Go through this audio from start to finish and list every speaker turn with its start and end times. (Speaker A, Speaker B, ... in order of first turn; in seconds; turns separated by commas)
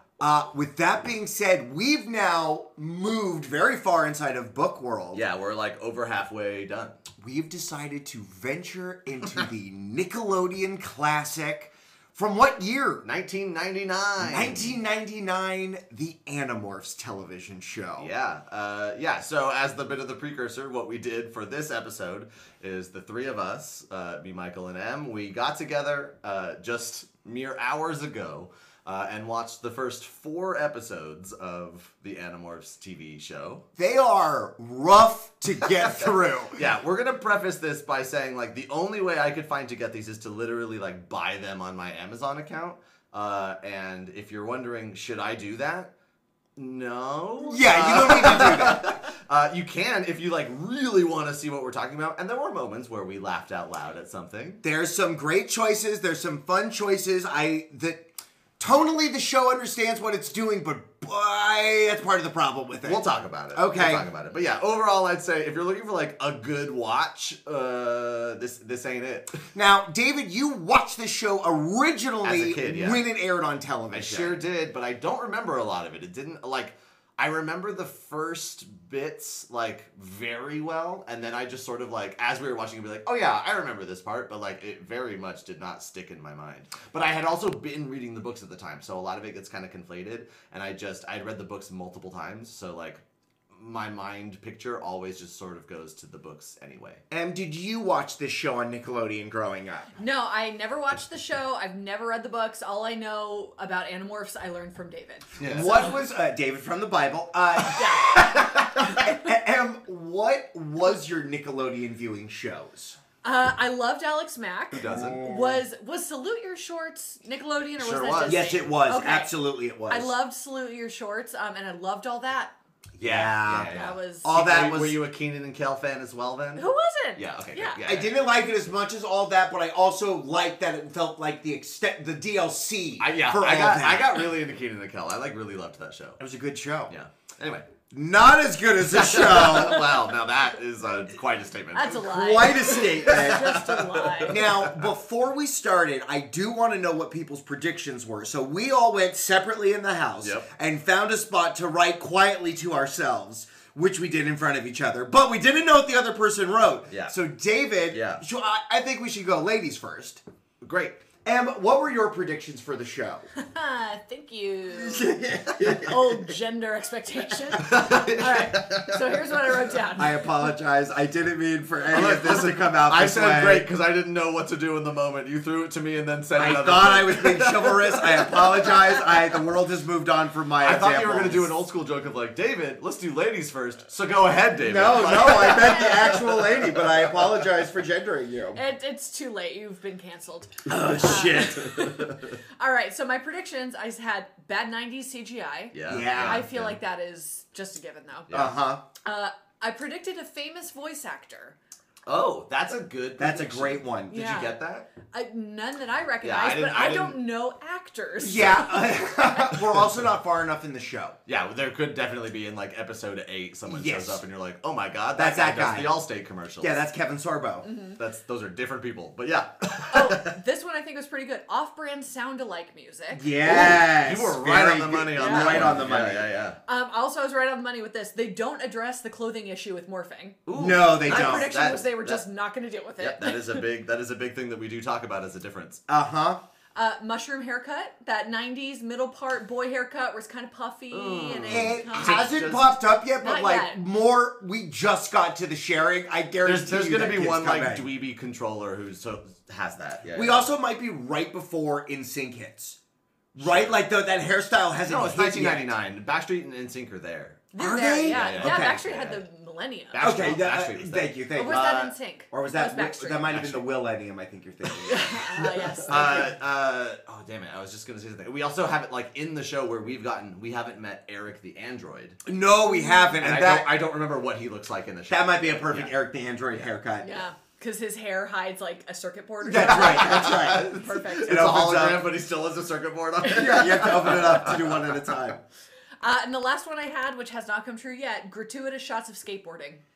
Speaker A: 0.2-5.2, Speaker B: 5.1-7.0, Speaker A: 7.2-13.0, Speaker B: 13.0-14.8, Speaker A: 14.2-18.1, Speaker B: 18.0-33.6, Speaker A: 33.8-36.6, Speaker B: 35.7-45.9, Speaker B: 46.6-54.6, Speaker A: 47.5-48.9, Speaker A: 54.6-58.0, Speaker A: 58.6-64.1, Speaker B: 62.8-69.4, Speaker A: 69.5-74.4, Speaker B: 72.2-73.0, Speaker B: 73.9-97.0, Speaker A: 97.1-99.9, Speaker C: 100.0-105.4, Speaker B: 105.4-105.9, Speaker A: 105.4-113.0, Speaker C: 107.7-108.2, Speaker C: 108.8-109.2, Speaker C: 113.2-119.3, Speaker B: 114.7-115.2, Speaker A: 114.9-115.6, Speaker B: 117.8-118.6, Speaker A: 118.2-120.1, Speaker C: 119.9-122.5, Speaker A: 123.0-125.0, Speaker B: 123.0-128.2, Speaker C: 123.7-124.3, Speaker C: 126.6-127.8, Speaker A: 127.8-134.3, Speaker B: 133.0-136.2, Speaker A: 136.2-136.9, Speaker B: 136.9-137.7, Speaker A: 137.9-139.9, Speaker B: 138.9-144.9, Speaker C: 139.5-139.9, Speaker C: 141.7-144.4, Speaker A: 141.9-143.5, Speaker A: 144.3-160.2, Speaker B: 157.9-158.2, Speaker B: 160.6-161.0, Speaker A: 161.2-163.3, Speaker C: 163.4-170.5, Speaker A: 164.8-165.9, Speaker B: 165.2-165.9, Speaker B: 167.6-169.2, Speaker A: 170.0-173.7, Speaker B: 171.9-178.9, Speaker A: 176.3-181.6, Speaker B: 180.6-187.5, Speaker A: 184.6-188.6, Speaker C: 185.3-186.2, Speaker C: 188.6-198.3, Speaker A: 190.7-191.9, Speaker B: 191.1-192.2, Speaker B: 195.7-196.8, Speaker A: 195.9-196.5, Speaker B: 198.3-198.6, Speaker A: 198.3-198.8, Speaker C: 199.0-201.6, Speaker B: 202.1-204.9, Speaker A: 203.2-204.2, Speaker C: 204.1-204.6, Speaker C: 205.1-209.5, Speaker B: 206.2-207.2, Speaker A: 208.2-211.2, Speaker B: 209.6-209.9, Speaker B: 211.3-216.7, Speaker A: 213.7-214.2, Speaker A: 215.2-216.0, Speaker A: 216.6-217.7, Speaker C: 217.6-218.0, Speaker B: 218.0-220.3, Speaker C: 219.9-223.3, Speaker A: 223.1-226.3, Speaker B: 223.4-226.6, Speaker C: 225.2-225.8, Speaker C: 226.7-233.6, Speaker B: 230.5-232.2, Speaker A: 230.6-231.5, Speaker B: 233.0-235.8, Speaker A: 235.9-236.4, Speaker C: 236.8-242.4, Speaker B: 240.9-242.7, Speaker A: 241.5-247.9, Speaker C: 243.2-243.8, Speaker B: 246.4-250.5, Speaker A: 250.1-252.8, Speaker A: 253.3-255.7, Speaker B: 253.4-253.8, Speaker B: 254.9-257.5, Speaker C: 257.5-260.4, Speaker A: 257.6-258.9, Speaker B: 258.0-259.2, Speaker B: 259.9-261.9, Speaker A: 260.0-266.3, Speaker C: 261.3-263.3, Speaker B: 263.2-263.7, Speaker C: 264.9-266.3, Speaker B: 265.9-272.2, Speaker A: 272.3-273.7, Speaker C: 272.6-273.2, Speaker B: 273.2-275.9, Speaker A: 275.1-277.1, Speaker C: 277.0-281.5, Speaker A: 279.4-282.1, Speaker B: 279.5-284.9, Speaker A: 283.3-285.4, Speaker C: 286.0-289.8